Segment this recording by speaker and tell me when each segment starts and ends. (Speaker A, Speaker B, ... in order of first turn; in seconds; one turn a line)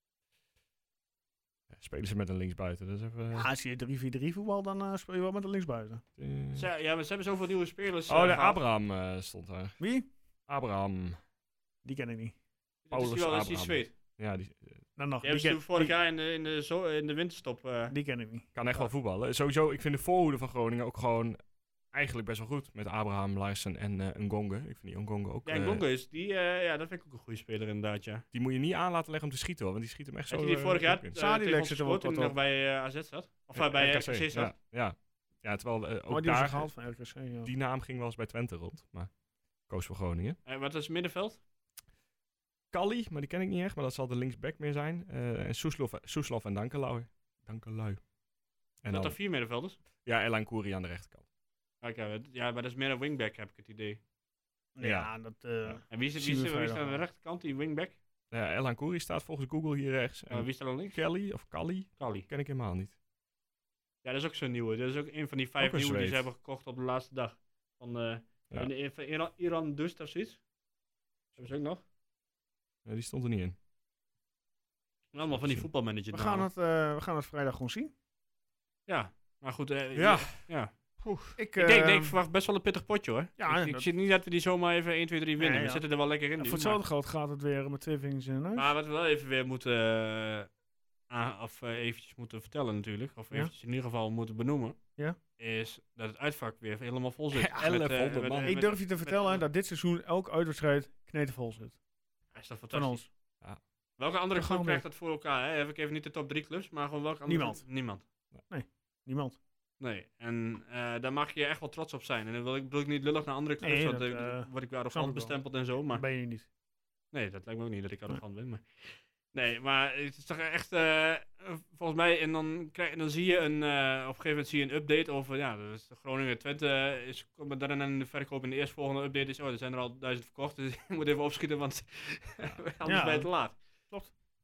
Speaker A: 1.7-3.5
Speaker B: 3.3-6.0
Speaker A: 6.2-6.7
Speaker C: 6.5-8.6
Speaker A: 8.1-9.8
Speaker B: 9.8-10.1
Speaker A: 10.5-11.2
Speaker B: 11.8-12.4
Speaker C: 12.9-13.9
Speaker A: 12.9-14.9
Speaker B: 15.0-15.9
Speaker C: 15.2-17.9
Speaker B: 17.9-18.5
Speaker A: 18.6-21.4
Speaker A: 21.9-25.8
Speaker C: 25.4-28.2
Speaker A: 28.3-31.1
Speaker C: 30.3-34.5
Speaker B: 31.1-32.3
Speaker A: 33.6-36.7
Speaker B: 36.1-37.5
Speaker A: 37.5-39.1
Speaker A: 39.7-40.4
Speaker C: 40.5-41.4
Speaker A: 42.7-48.0
Speaker A: 48.8-49.2
Speaker C: 48.9-49.8
Speaker A: 50.0-51.2
Speaker C: 51.8-54.0
Speaker B: 54.8-57.0
Speaker A: 54.8-55.1
Speaker C: 55.9-58.0
Speaker A: 58.3-62.9
Speaker C: 60.3-61.0
Speaker C: 62.0-62.3
Speaker C: 64.0-70.4
Speaker A: 65.6-66.2
Speaker C: 71.4-71.8
Speaker A: 72.8-73.6
Speaker C: 75.1-76.5
Speaker A: 75.3-75.7
Speaker B: 76.1-77.9
Speaker C: 78.9-80.7
Speaker A: 80.0-80.4
Speaker A: 81.0-81.4
Speaker B: 81.4-82.2
Speaker C: 81.6-86.8
Speaker B: 83.4-83.9
Speaker B: 85.4-88.7
Speaker C: 88.5-90.5
Speaker C: 91.1-94.8
Speaker C: 95.4-99.4
Speaker A: 97.3-98.6
Speaker B: 98.4-101.8
Speaker C: 102.3-103.0
Speaker B: 102.7-103.1
Speaker C: 104.0-108.0
Speaker B: 104.3-104.8
Speaker B: 107.3-107.6
Speaker B: 108.5-109.4
Speaker C: 109.8-116.0
Speaker B: 113.6-116.5
Speaker C: 117.1-133.6
Speaker B: 132.8-133.3